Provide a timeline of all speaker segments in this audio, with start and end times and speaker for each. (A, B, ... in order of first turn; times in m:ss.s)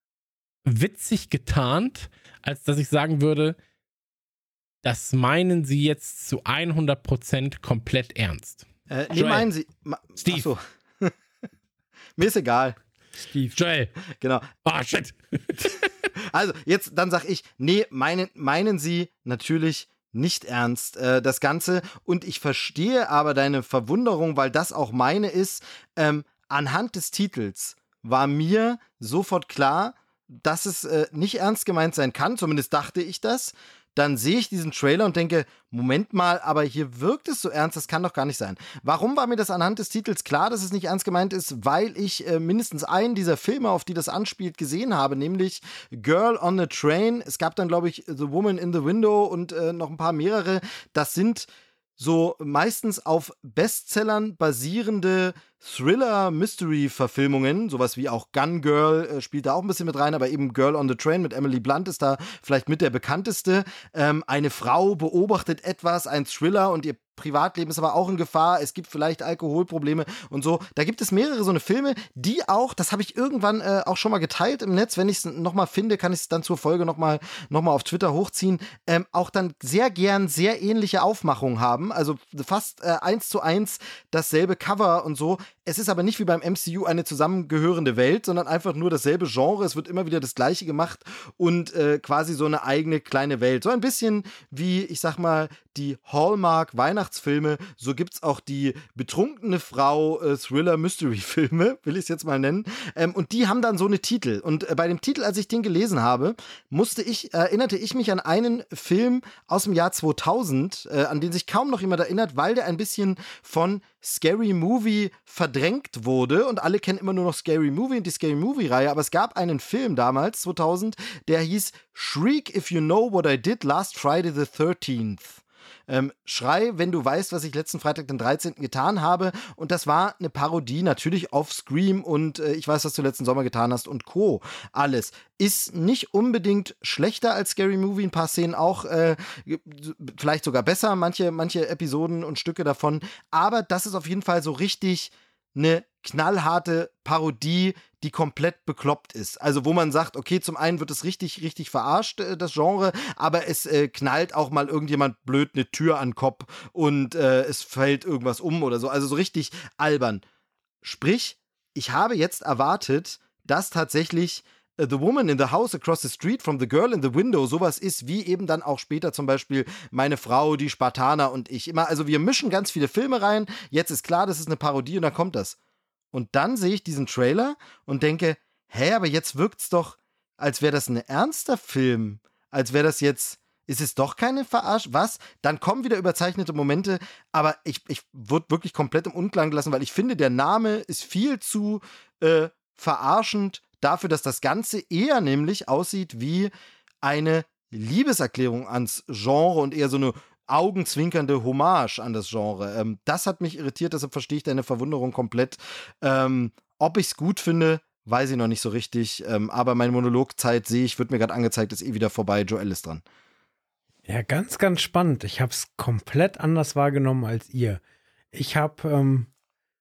0:00.6-0:03.6 A
0:04.8-0:09.5 A
0:08.9-0:11.1 B
0:10.2-0:10.5 A
0:12.2-0:12.8 B
0:13.2-0:13.5 C
0:13.5-0:13.9 A
0:14.2-0:14.5 B
0:14.6-0:15.9 A
0:16.2-2:40.2 B
2:40.8-2:55.6 B
2:56.1-3:16.5 B
3:17.0-3:33.0 B
3:34.1-3:37.8 C
3:38.3-3:39.3 C